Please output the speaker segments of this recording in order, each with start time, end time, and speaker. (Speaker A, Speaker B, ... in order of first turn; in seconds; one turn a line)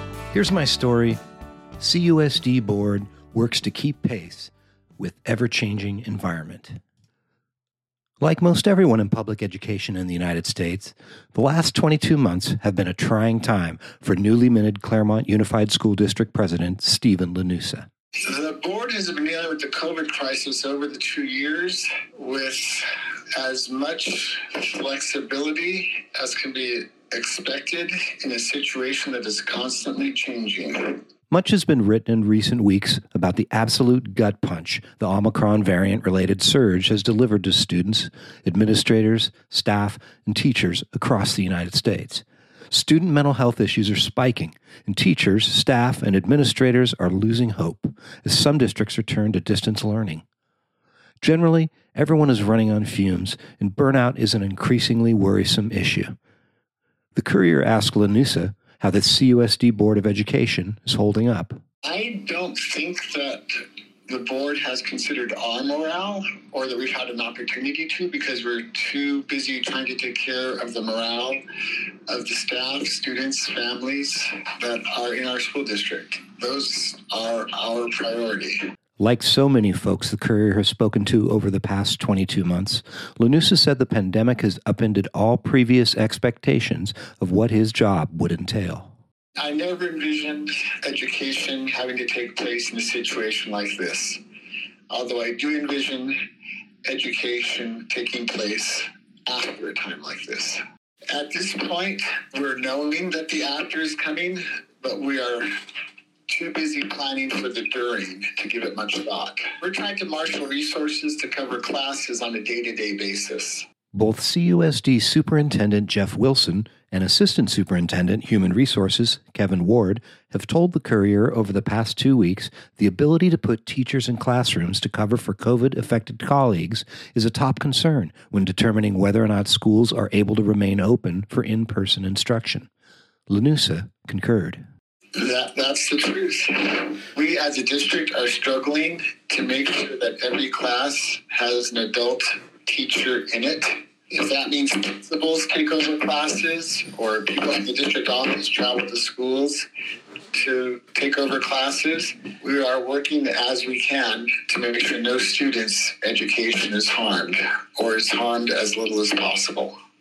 Speaker A: 0.3-1.2
Speaker A: 1.8-6.8
Speaker A: 8.2-17.9
Speaker B: 18.2-31.0
Speaker A: 31.3-50.2
Speaker A: 51.2-56.1
Speaker A: 57.1-61.6
Speaker B: 61.8-71.4
Speaker B: 72.1-78.6
Speaker A: 79.0-88.9
Speaker B: 89.4-94.2
Speaker B: 94.9-96.2
Speaker B: 96.8-105.4
Speaker B: 106.3-113.7
Speaker A: 113.9-132.7
Speaker A: 133.3-134.6
Speaker B: 135.1-149.7
Speaker B: 150.3-159.7